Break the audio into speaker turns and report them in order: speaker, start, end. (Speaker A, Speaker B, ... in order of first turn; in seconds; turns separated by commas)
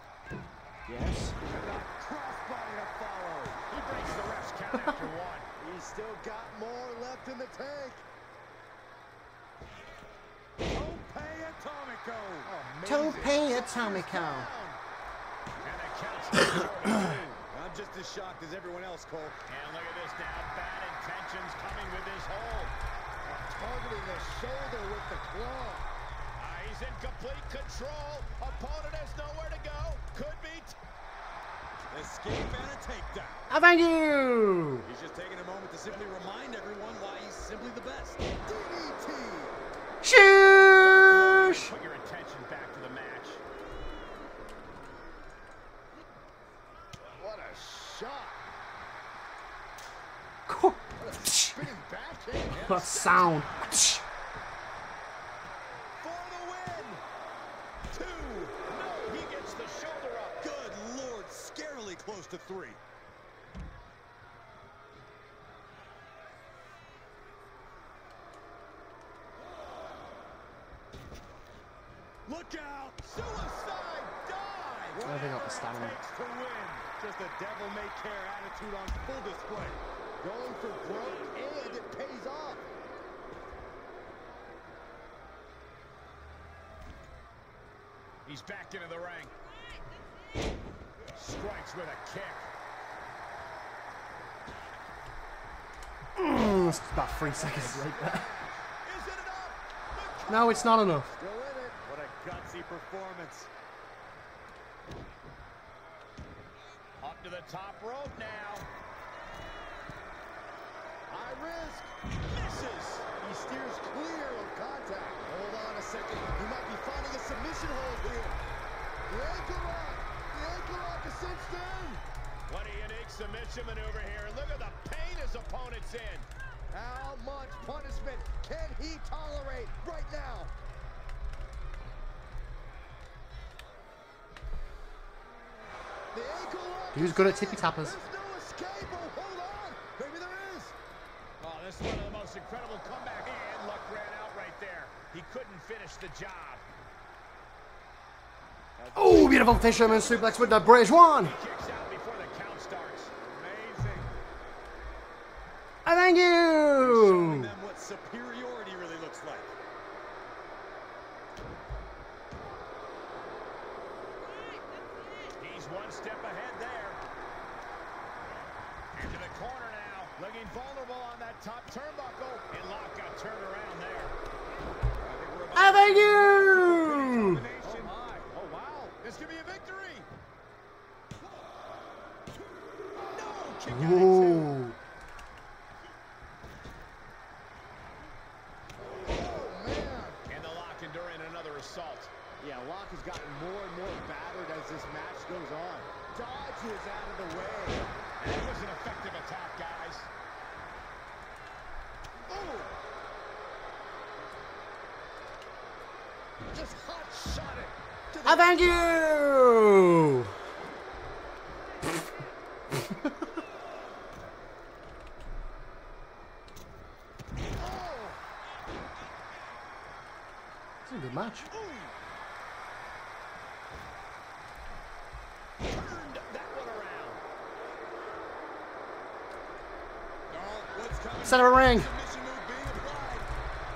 Speaker A: 0.9-1.4, Speaker B: 1.5-3.6, Speaker C: 3.7-5.5, Speaker D: 5.6-8.0, Speaker B: 10.7-12.5, Speaker D: 12.4-14.8, Speaker A: 12.8-14.5, Speaker C: 15.6-17.4, Speaker B: 17.5-19.4, Speaker C: 19.5-22.8, Speaker D: 23.2-25.9, Speaker C: 26.4-30.8, Speaker B: 31.9-33.4, Speaker A: 33.5-34.9, Speaker B: 34.8-38.2, Speaker D: 38.4-39.6, Speaker A: 40.0-41.7, Speaker C: 40.8-43.4, Speaker D: 47.1-48.4, Speaker A: 50.5-51.7, Speaker D: 51.0-52.7, Speaker A: 52.5-54.0, Speaker B: 52.6-53.6, Speaker C: 56.0-57.0, Speaker C: 57.9-60.4, Speaker B: 60.4-62.8, Speaker B: 72.2-73.6, Speaker C: 73.1-75.1, Speaker B: 74.8-79.8, Speaker D: 75.0-75.4, Speaker A: 75.0-76.0, Speaker D: 80.2-82.6, Speaker C: 88.2-89.3, Speaker C: 91.1-92.5, Speaker A: 96.2-98.3, Speaker D: 96.5-98.7, Speaker C: 98.8-100.7, Speaker A: 100.3-101.1, Speaker D: 100.5-101.8, Speaker B: 101.8-103.5, Speaker C: 107.0-108.7, Speaker D: 111.1-111.9, Speaker C: 112.2-113.1, Speaker D: 113.2-118.4, Speaker D: 119.1-122.0, Speaker C: 122.5-126.3, Speaker D: 126.7-130.5, Speaker D: 136.1-140.7, Speaker A: 136.9-138.0, Speaker C: 141.4-146.6, Speaker B: 148.8-150.3, Speaker A: 148.9-151.4, Speaker D: 149.5-150.5, Speaker C: 151.1-153.1, Speaker B: 153.3-154.2, Speaker A: 155.8-157.5, Speaker B: 156.8-159.5, Speaker C: 165.4-167.0, Speaker C: 168.9-174.2, Speaker B: 175.0-177.9, Speaker A: 175.6-177.5, Speaker D: 177.6-179.0, Speaker C: 179.0-180.1, Speaker D: 183.1-183.7, Speaker C: 183.1-184.5, Speaker A: 183.7-184.8, Speaker D: 189.0-190.2, Speaker C: 190.2-192.1, Speaker D: 192.4-197.9, Speaker C: 198.2-200.1, Speaker D: 202.3-202.7, Speaker D: 206.5-208.7, Speaker A: 208.2-210.3, Speaker D: 217.6-218.2, Speaker A: 220.9-221.5, Speaker C: 225.6-227.2, Speaker B: 230.3-233.3, Speaker A: 231.2-231.9